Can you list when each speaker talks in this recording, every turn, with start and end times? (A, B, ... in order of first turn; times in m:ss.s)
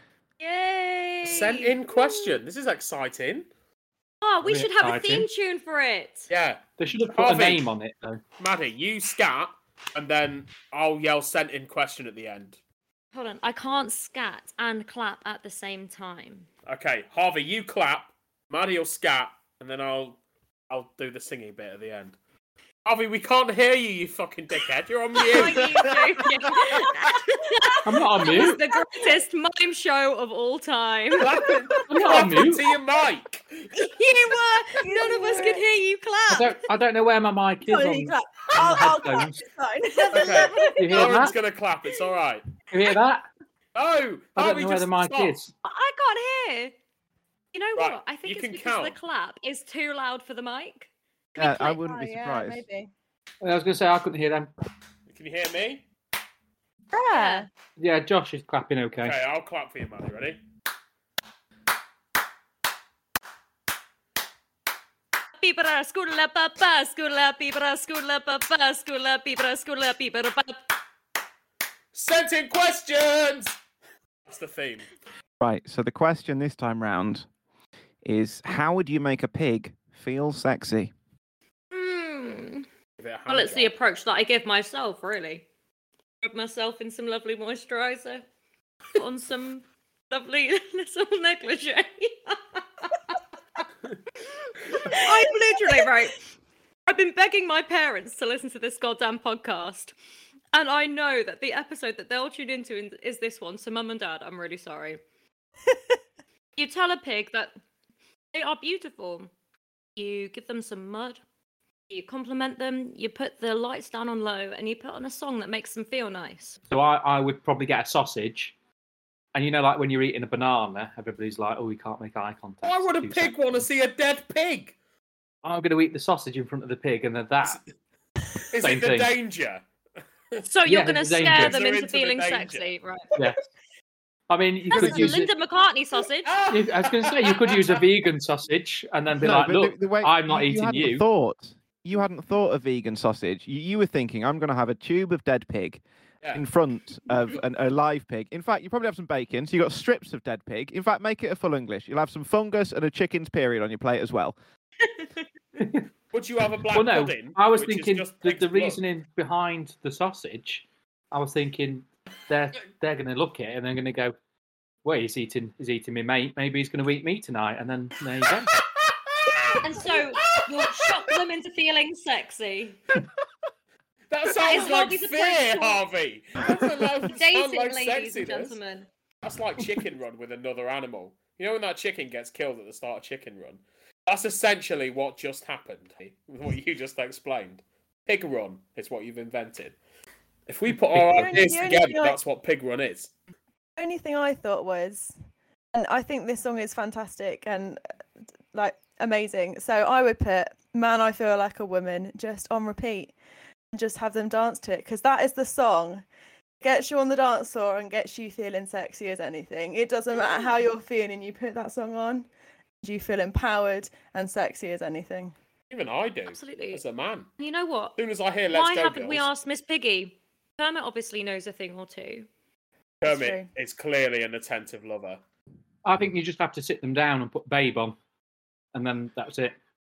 0:00.4-0:02.4 A
0:01.2-0:03.5 B
0:04.2-0:06.3 A
0:04.4-0:05.3 C
0:06.3-0:07.6 B
0:06.8-0:08.2 C
0:08.4-0:12.6 B
0:13.1-0:16.5 A
0:16.7-0:20.2 B
0:20.7-0:22.2 B
0:22.8-0:26.0 B
0:25.2-0:31.3 A
0:27.7-0:29.0 D
0:27.8-0:28.6 C
0:31.2-0:33.7 B
0:31.2-0:32.5 D
0:31.9-0:32.6 C
0:33.8-0:36.6 A
0:34.2-0:35.6 D
0:36.3-0:39.4 C
0:37.6-0:41.2 D
0:40.0-0:41.3 A
0:40.1-0:42.5 B
0:40.8-0:41.3 C
0:42.7-0:43.3 C
0:43.8-0:45.4 B
0:44.4-0:45.5 C
0:45.6-0:46.7 A
0:47.5-0:51.8 A
0:47.8-0:49.0 B
0:51.4-0:52.6 E
0:51.4-0:52.9 D
0:53.4-0:54.5 C
0:55.1-0:55.8 B
0:56.9-0:57.5 D
0:57.1-0:57.5 A
0:57.8-0:59.2 C
0:59.0-1:00.4 B
1:05.4-1:10.6 A
1:11.9-1:13.6 B
1:14.3-1:14.9 B
1:15.4-1:17.3 E
1:18.0-1:20.9 E
1:21.7-1:22.7 A
1:23.0-1:23.7 B
1:23.3-1:25.4 A
1:26.2-1:28.2 A
1:28.9-1:33.2 A
1:34.8-1:36.2 A
1:34.9-1:35.8 D
1:36.9-1:39.9 A
1:40.5-1:45.0 A
1:46.6-1:47.5 A
1:48.3-1:49.3 A
1:50.0-1:51.2 A
1:51.9-1:56.6 A
1:56.7-1:58.5 C
1:59.3-2:03.6 C
2:02.6-2:04.8 B
2:05.4-2:07.6 C
2:08.5-2:09.6 B
2:08.6-2:09.2 C
2:10.5-2:13.1 A
2:10.7-2:11.6 C
2:11.2-2:12.7 B
2:13.2-2:13.4 C
2:14.3-2:15.3 C
2:14.7-2:16.4 A
2:16.3-2:17.8 B
2:16.5-2:21.0 C
2:19.2-2:25.8 E
2:26.3-2:34.4 E
2:35.6-2:35.9 C
2:36.1-2:38.8 B
2:36.7-2:44.2 C
2:44.8-2:48.6 C
2:49.6-2:52.8 A
2:50.3-2:50.9 B
2:54.1-2:58.6 B
2:54.4-2:55.8 A
2:57.1-2:58.9 A
2:59.2-3:09.8 B
3:10.5-3:13.1 B
3:10.9-3:11.5 C
3:11.1-3:12.2 D
3:13.8-3:15.1 D
3:15.7-3:17.8 D
3:18.5-3:23.1 D
3:23.7-3:26.0 D
3:26.6-3:32.3 D
3:32.8-3:35.4 D
3:35.7-3:37.3 B
3:36.3-3:36.8 A
3:37.4-3:38.0 A
3:38.0-3:39.3 B
3:38.5-3:42.3 A
3:43.0-3:45.2 B
3:43.0-3:43.4 D
3:45.8-3:48.0 C
3:48.7-3:49.6 C